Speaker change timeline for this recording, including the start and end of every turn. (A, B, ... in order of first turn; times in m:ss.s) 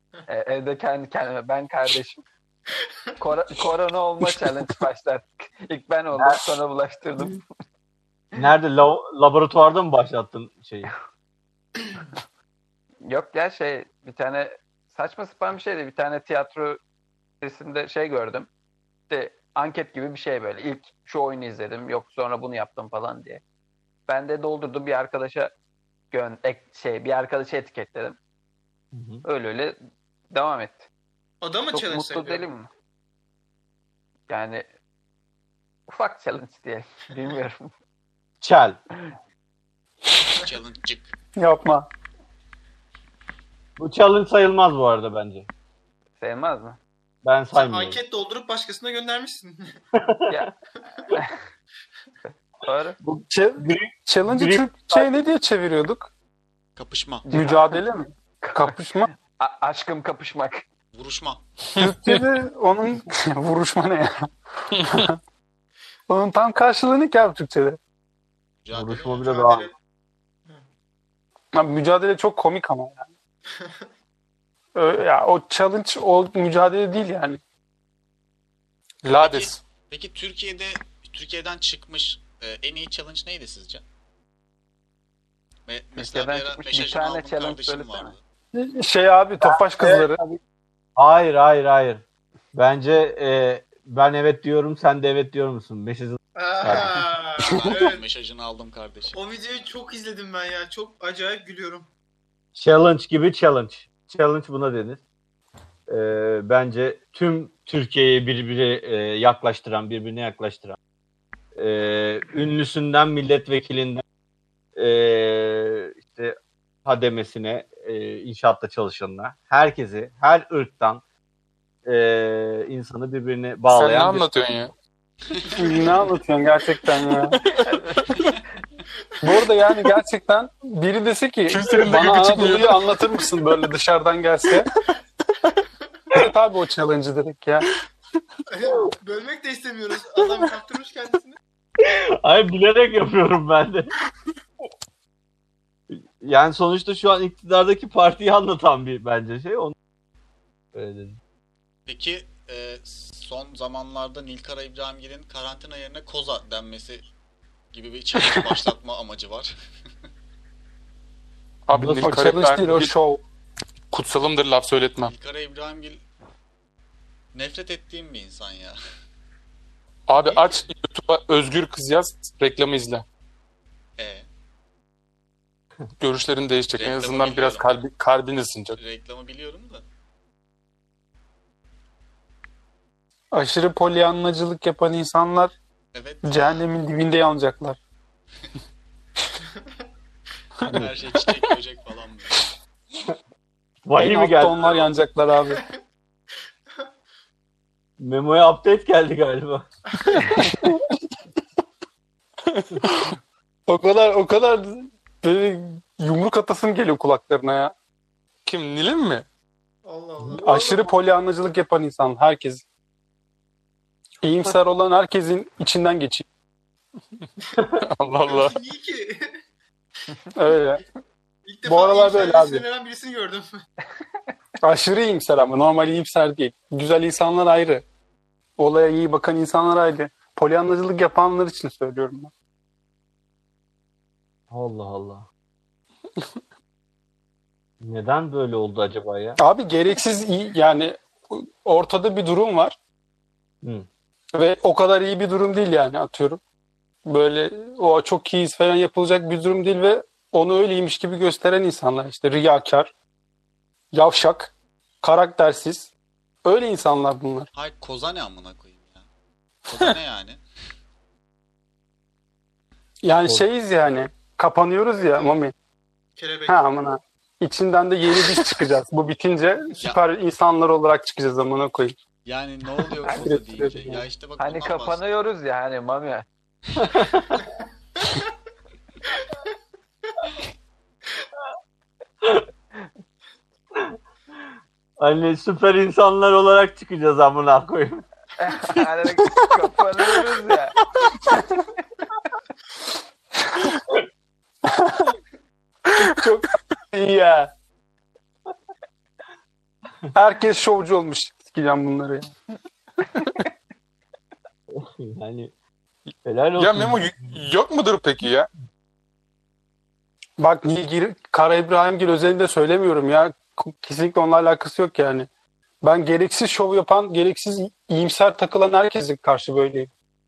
0:00.3-0:02.2 A
0:03.2-0:07.4 A
0:06.1-0:06.4 B
0:08.4-0:10.9 B
0:13.0-0:16.8 A
0:17.4-0:18.5 A
0:19.1-0:23.4 A
0:24.1-0:25.5 A
0:26.1-0:28.2 A
0:28.9-0:29.2 B
0:29.2-0:29.8 A
0:30.3-0:30.9 A
0:31.4-0:32.4 C
0:31.7-0:32.7 A
0:34.3-0:34.6 A
0:35.9-0:37.7 A
0:38.4-0:38.8 B
0:40.3-0:41.1 D
0:41.4-0:41.9 E
0:43.8-0:45.5 B
0:46.2-0:46.8 A
0:47.2-0:48.0 B
0:47.5-0:49.8 C
0:49.9-0:50.4 B
0:51.0-0:51.4 A
0:52.6-0:53.0 A
0:53.0-0:55.1 B
0:53.3-0:56.1 E
0:56.8-0:57.3 D
0:57.3-0:57.8 A
0:57.3-0:59.1 E
0:58.4-1:00.6 A
1:00.9-1:01.4 D
1:01.8-1:05.2 E
1:01.8-1:02.2 F
1:06.1-1:07.8 E
1:08.6-1:09.4 D
1:08.7-1:09.7 B
1:09.1-1:09.7 C
1:11.5-1:13.1 E
1:13.5-1:13.8 C
1:14.7-1:17.4 E
1:19.0-1:19.6 F
1:19.2-1:23.8 D
1:25.6-1:28.2 D
1:26.0-1:28.1 A
1:28.5-1:30.2 E
1:29.4-1:30.4 B
1:31.0-1:36.9 B
1:36.4-1:38.0 C
1:37.4-1:39.2 D
1:39.1-1:41.9 C
1:42.5-1:45.0 B
1:45.9-1:50.8 B
1:51.5-1:54.0 B
1:54.8-2:01.0 B
2:01.8-2:04.2 B
2:03.7-2:04.7 F
2:05.4-2:07.4 E
2:07.6-2:08.3 A
2:09.2-2:14.7 E
2:11.5-2:13.0 F
2:16.1-2:17.7 E
2:18.5-2:21.4 C
2:21.8-2:23.9 B
2:25.9-2:29.7 B
2:30.7-2:31.2 B
2:31.9-2:37.1 D
2:37.7-2:39.5 D
2:41.7-2:42.9 F
2:41.7-2:43.2 E
2:41.8-2:42.2 B
2:43.9-2:45.1 F
2:45.0-2:46.0 D
2:47.3-2:48.8 D
2:50.1-2:53.0 F
2:50.2-2:50.4 D
2:54.0-2:54.3 D
2:56.0-2:58.8 F
2:56.8-2:57.7 D
2:58.7-2:59.8 D
3:03.3-3:05.5 E
3:05.9-3:06.7 D
3:06.2-3:07.8 E
3:10.7-3:12.5 D
3:13.8-3:14.7 B
3:14.0-3:15.6 E
3:18.0-3:19.7 B
3:20.0-3:20.4 C
3:20.4-3:20.8 E
3:22.8-3:23.1 E
3:23.7-3:27.7 E
3:28.4-3:29.2 F
3:29.8-3:30.8 C
3:30.2-3:30.8 B
3:30.4-3:32.6 E
3:34.2-3:36.2 E
3:37.8-3:38.6 F
3:38.2-3:39.3 C
3:40.3-3:40.8 E
3:41.4-3:43.5 C
3:41.6-3:42.6 E
3:44.6-3:47.8 E
3:48.6-3:52.3 E
3:54.5-3:55.3 B
3:57.8-3:59.4 B
3:59.4-4:02.7 E
4:04.3-4:06.4 E
4:07.0-4:12.9 E
4:13.9-4:15.9 E
4:16.4-4:17.5 E
4:17.5-4:19.1 D
4:19.7-4:20.4 D
4:23.0-4:25.5 E
4:26.2-4:26.7 C
4:26.5-4:31.9 E
4:32.2-4:35.0 D
4:33.0-4:34.0 E
4:34.4-4:36.2 A
4:36.9-4:37.4 B
4:42.2-4:42.4 B
4:45.0-4:48.0 B
4:48.4-4:50.7 A
4:51.2-4:51.6 E
4:54.6-4:55.2 E
4:55.8-4:57.5 E
5:00.1-5:02.3 E
5:04.7-5:05.5 B
5:06.2-5:07.4 B
5:06.6-5:08.5 F
5:10.4-5:15.3 E
5:15.8-5:19.9 E